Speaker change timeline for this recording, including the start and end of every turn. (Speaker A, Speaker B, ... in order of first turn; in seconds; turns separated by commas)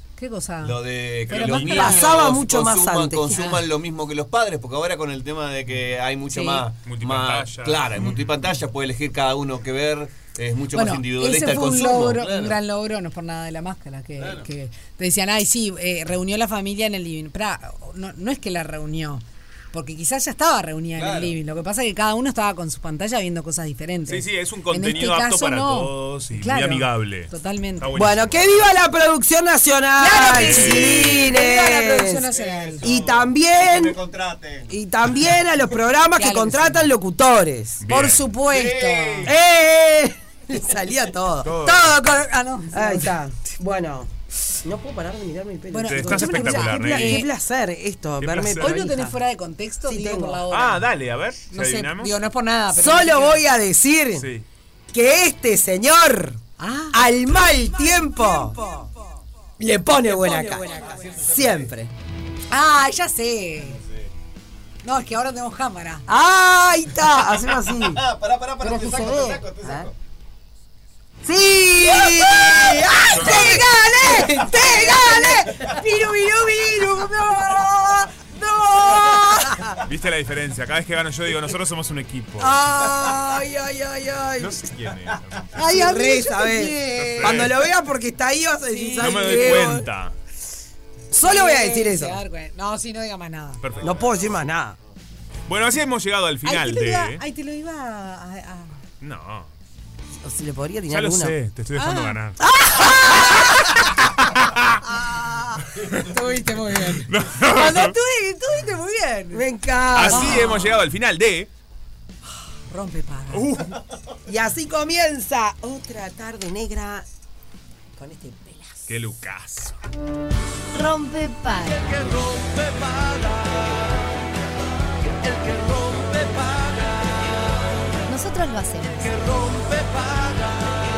Speaker A: 0.2-2.1, Speaker B: 0.6-12.6, Speaker C: 1.3-2.0, Speaker D: 1.3-3.4, Speaker A: 6.3-6.7, Speaker C: 6.8-8.2, Speaker A: 10.7-27.9, Speaker B: 14.2-14.5, Speaker B: 21.0-21.4, Speaker C: 24.1-28.7, Speaker D: 27.9-32.3, Speaker A: 30.0-32.9, Speaker C: 30.4-31.3, Speaker B: 32.2-34.7, Speaker D: 32.8-34.0, Speaker D: 34.7-37.8, Speaker A: 36.2-36.9, Speaker C: 37.8-38.3, Speaker A: 37.9-39.3, Speaker B: 38.5-39.3, Speaker D: 39.2-41.9, Speaker C: 41.4-42.0, Speaker A: 41.6-43.1, Speaker D: 42.7-44.1, Speaker D: 44.6-49.2, Speaker A: 45.7-47.3, Speaker C: 45.9-47.3, Speaker C: 48.2-48.9, Speaker A: 48.5-50.9, Speaker D: 49.9-50.5, Speaker C: 50.5-52.1, Speaker A: 51.5-53.4, Speaker D: 52.7-54.3, Speaker C: 54.2-54.5, Speaker D: 54.9-56.4, Speaker A: 56.6-58.9, Speaker D: 56.9-58.9, Speaker D: 59.6-61.9, Speaker B: 60.1-61.7, Speaker A: 60.2-61.2, Speaker A: 62.5-63.8, Speaker A: 64.8-66.1, Speaker D: 66.1-68.0, Speaker B: 67.6-69.9, Speaker D: 68.6-69.9, Speaker A: 68.7-69.4, Speaker D: 71.2-79.8, Speaker A: 72.0-77.8, Speaker C: 73.0-73.7, Speaker A: 78.8-79.6, Speaker C: 79.8-82.6, Speaker D: 82.4-84.5, Speaker C: 84.4-85.7, Speaker A: 85.5-87.5, Speaker D: 85.6-89.9, Speaker C: 87.0-87.6, Speaker A: 88.7-89.8, Speaker C: 89.0-90.2, Speaker D: 91.1-92.2, Speaker A: 91.2-93.6, Speaker C: 93.6-94.2, Speaker D: 93.8-94.8, Speaker C: 95.5-97.2, Speaker A: 96.5-98.8, Speaker C: 99.0-99.5, Speaker D: 100.2-101.3, Speaker C: 100.9-102.4, Speaker A: 101.8-102.2, Speaker D: 102.4-103.8, Speaker A: 102.7-103.5, Speaker C: 104.4-104.7, Speaker D: 105.0-105.5, Speaker A: 105.9-109.5, Speaker C: 107.0-108.0, Speaker D: 109.3-110.5, Speaker C: 110.0-111.5, Speaker A: 110.0-110.7, Speaker A: 112.7-113.7, Speaker C: 113.3-113.8, Speaker D: 114.3-117.0, Speaker D: 118.0-118.9, Speaker C: 118.9-119.8, Speaker E: 120.7-122.2, Speaker E: 128.1-129.6